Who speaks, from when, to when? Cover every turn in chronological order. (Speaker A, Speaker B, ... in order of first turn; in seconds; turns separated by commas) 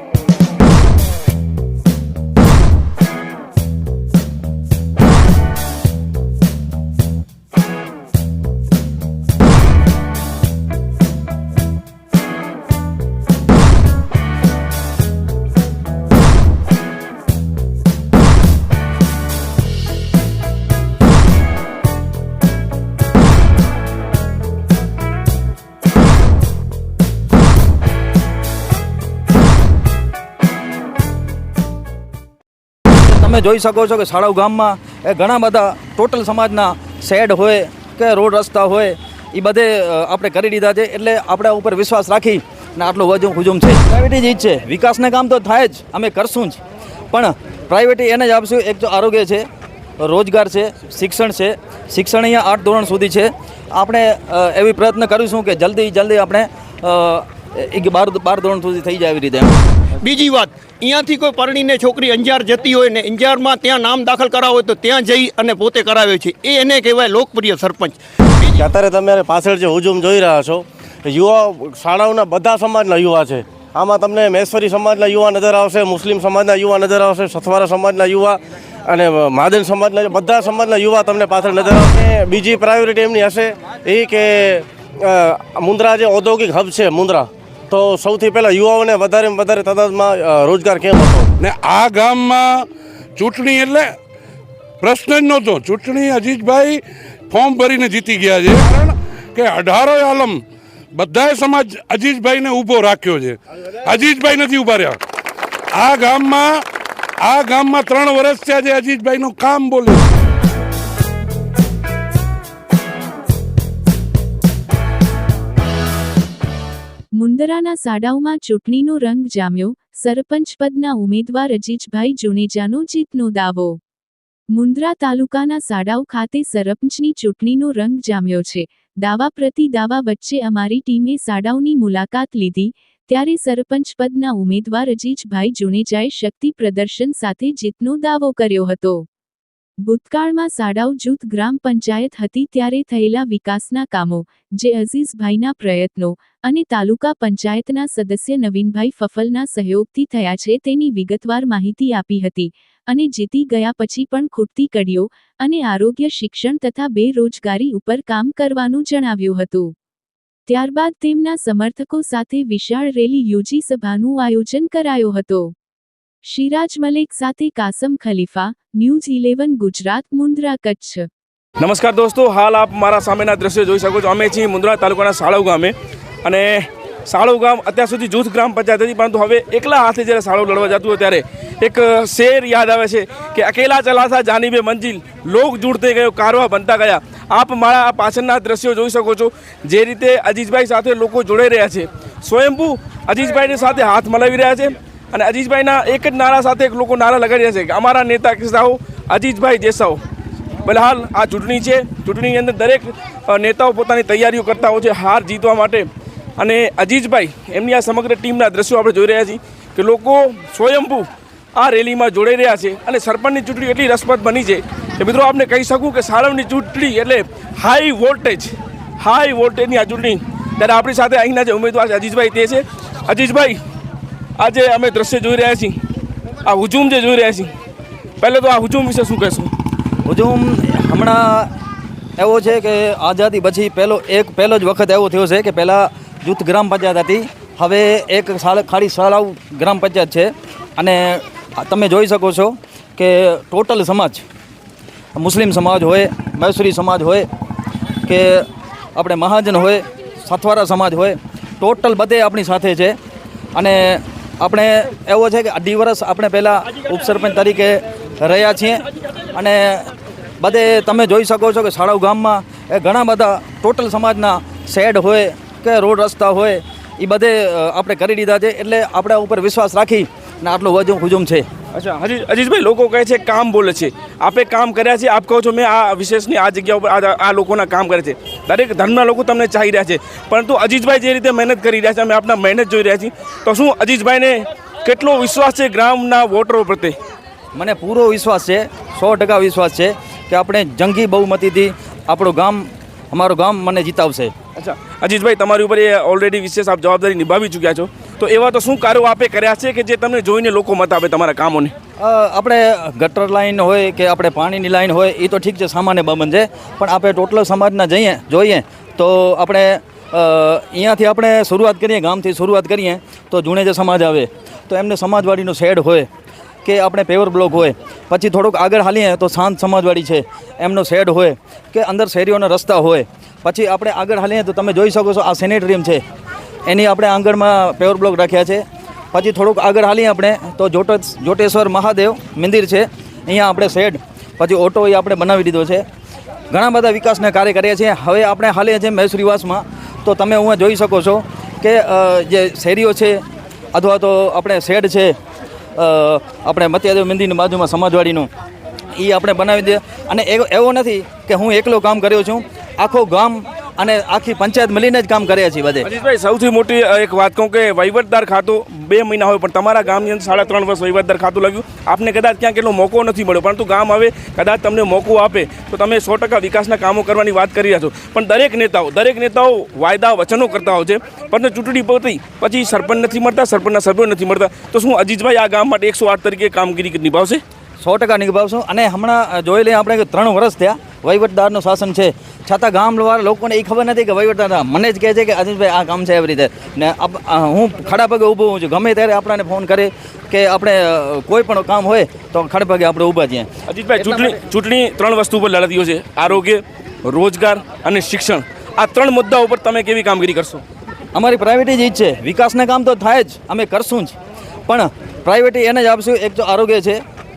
Speaker A: 32.9-46.6, Speaker A: 47.1-49.5, Speaker A: 50.0-59.5, Speaker B: 60.0-68.7, Speaker C: 68.5-91.3, Speaker D: 91.4-92.7, Speaker D: 93.2-93.9, Speaker D: 94.8-100.4, Speaker D: 100.9-105.0, Speaker D: 105.7-106.6, Speaker D: 107.2-110.0, Speaker E: 117.1-123.8, Speaker E: 124.5-139.1, Speaker E: 139.8-159.7, Speaker E: 160.5-165.5, Speaker E: 166.2-171.1, Speaker F: 171.6-175.7, Speaker F: 176.2-200.0, Speaker F: 200.6-205.9, Speaker F: 206.4-223.6, Speaker F: 224.4-225.8, Speaker F: 226.4-227.5, Speaker F: 228.2-229.5, Speaker A: 230.0-231.5, Speaker A: 232.2-244.2, Speaker A: 245.2-247.3, Speaker A: 248.0-253.0, Speaker A: 253.5-258.8, Speaker A: 259.3-271.4, Speaker F: 271.7-286.9, Speaker A: 287.5-294.3, Speaker F: 294.5-301.7, Speaker A: 302.0-316.1, Speaker A: 316.6-326.0, Speaker A: 326.6-335.8, Speaker A: 336.5-343.2, Speaker A: 343.7-345.1, Speaker A: 345.8-348.3, Speaker A: 348.9-355.9, Speaker F: 355.8-377.4, Speaker A: 377.8-393.5, Speaker F: 393.7-400.6, Speaker A: 394.0-394.3, Speaker A: 401.1-404.1, Speaker A: 404.7-407.0